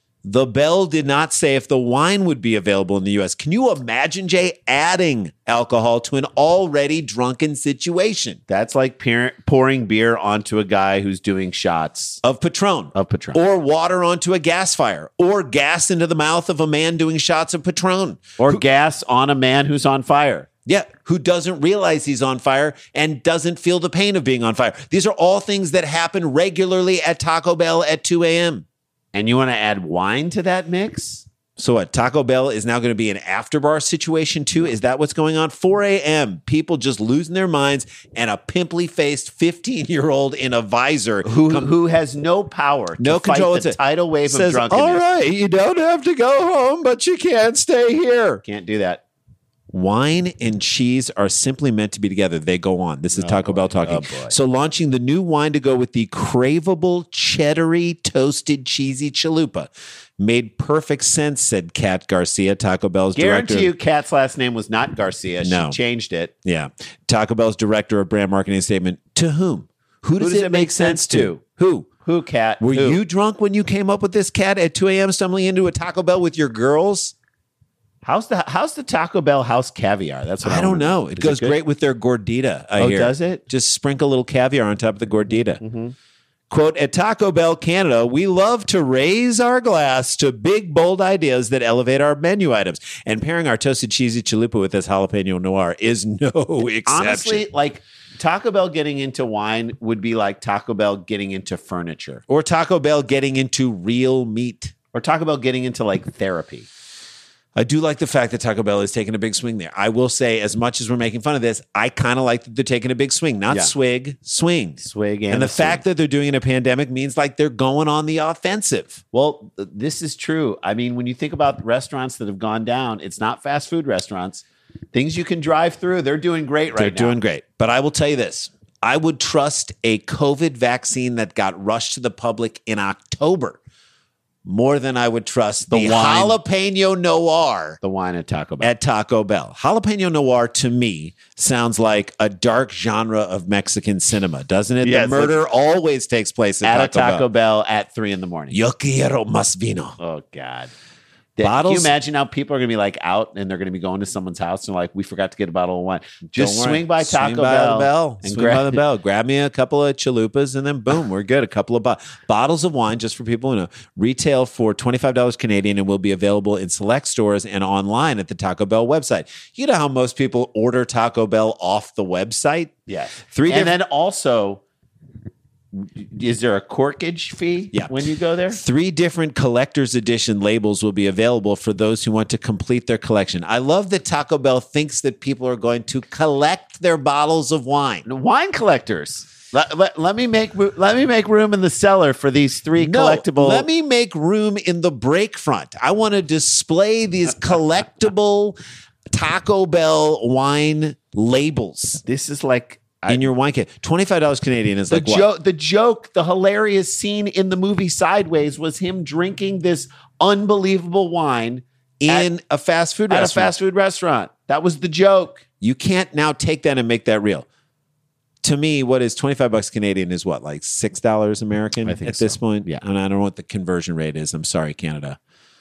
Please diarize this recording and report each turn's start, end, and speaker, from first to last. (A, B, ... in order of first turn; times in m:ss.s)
0:00.2-0:08.4 A
0:08.5-0:12.2 B
0:12.2-0:18.6 A
0:12.9-0:13.4 B
0:18.4-0:20.5 B
0:20.6-0:28.6 A
0:29.1-0:31.2 B
0:31.6-0:41.7 A
0:41.2-0:45.0 B
0:43.0-0:48.4 A
0:48.4-0:49.0 B
0:49.7-1:03.7 A
0:53.1-0:54.4 B
1:03.1-1:06.3 B
1:05.4-1:05.8 A
1:06.4-1:11.9 A
1:10.2-1:11.4 B
1:12.0-1:13.0 B
1:12.6-1:17.1 A
1:18.0-1:21.6 B
1:20.4-1:25.6 A
1:22.8-1:23.4 B
1:25.6-1:25.9 B
1:26.5-1:37.4 A
1:36.8-1:42.2 B
1:42.3-1:44.7 A
1:44.9-1:46.7 B
1:47.6-1:59.0 A
1:53.5-1:53.7 B
1:54.8-1:55.8 B
1:59.1-2:07.2 B
2:06.7-2:13.6 A
2:14.4-2:17.8 A
2:15.7-2:16.4 B
2:17.8-2:18.7 B
2:18.6-2:27.3 A
2:24.8-2:25.4 B
2:26.6-2:28.6 B
2:28.5-2:30.0 A
2:30.0-2:30.7 B
2:31.4-2:38.8 B
2:31.4-2:31.9 A
2:36.3-2:53.8 A
2:52.9-2:54.6 B
2:55.7-2:58.6 B
2:58.5-3:08.0 A
3:08.0-3:13.7 B
3:12.8-3:18.6 A
3:19.1-3:22.0 A
3:22.0-3:23.3 B
3:23.1-3:25.3 A
3:24.9-3:32.3 B
3:32.0-3:33.5 A
3:33.1-3:35.4 B
3:35.6-3:37.4 A
3:38.4-3:45.2 A
3:41.8-3:42.8 B